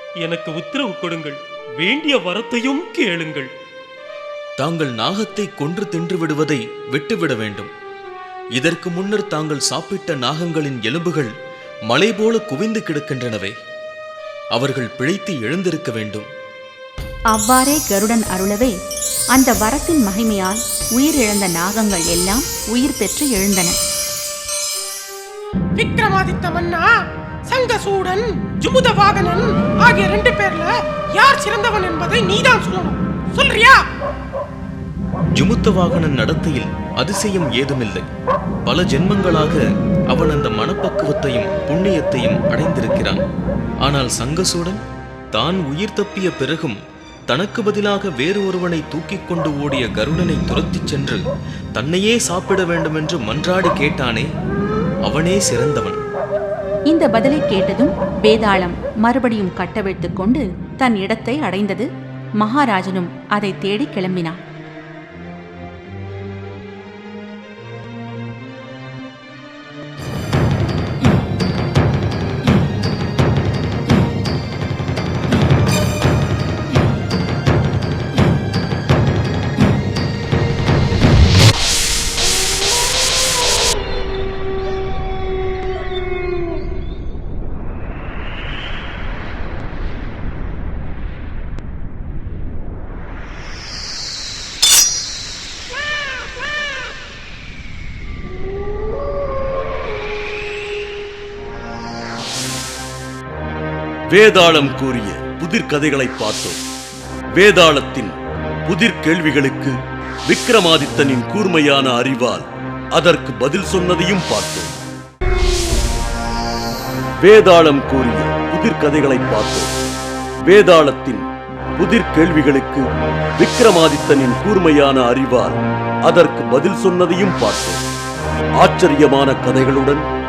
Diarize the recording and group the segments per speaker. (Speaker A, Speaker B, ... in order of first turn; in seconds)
Speaker A: 0.2-3.5
Speaker B: 4.6-7.7, 8.6-11.3, 11.9-13.6, 14.6-16.3, 35.4-38.1, 38.7-39.6, 40.1-43.2, 43.8-44.8, 45.3-46.8, 47.3-51.2, 51.8-54.3, 55.1-56.0
Speaker C: 17.3-18.7, 19.4-23.8, 56.9-61.9, 62.4-64.4
Speaker D: 25.8-26.9, 27.5-33.8
Speaker E: 104.1-106.6, 107.3-108.2, 108.7-109.8, 110.3-114.8, 117.2-119.7, 120.5-121.2, 121.8-122.9, 123.4-127.8, 128.6-130.0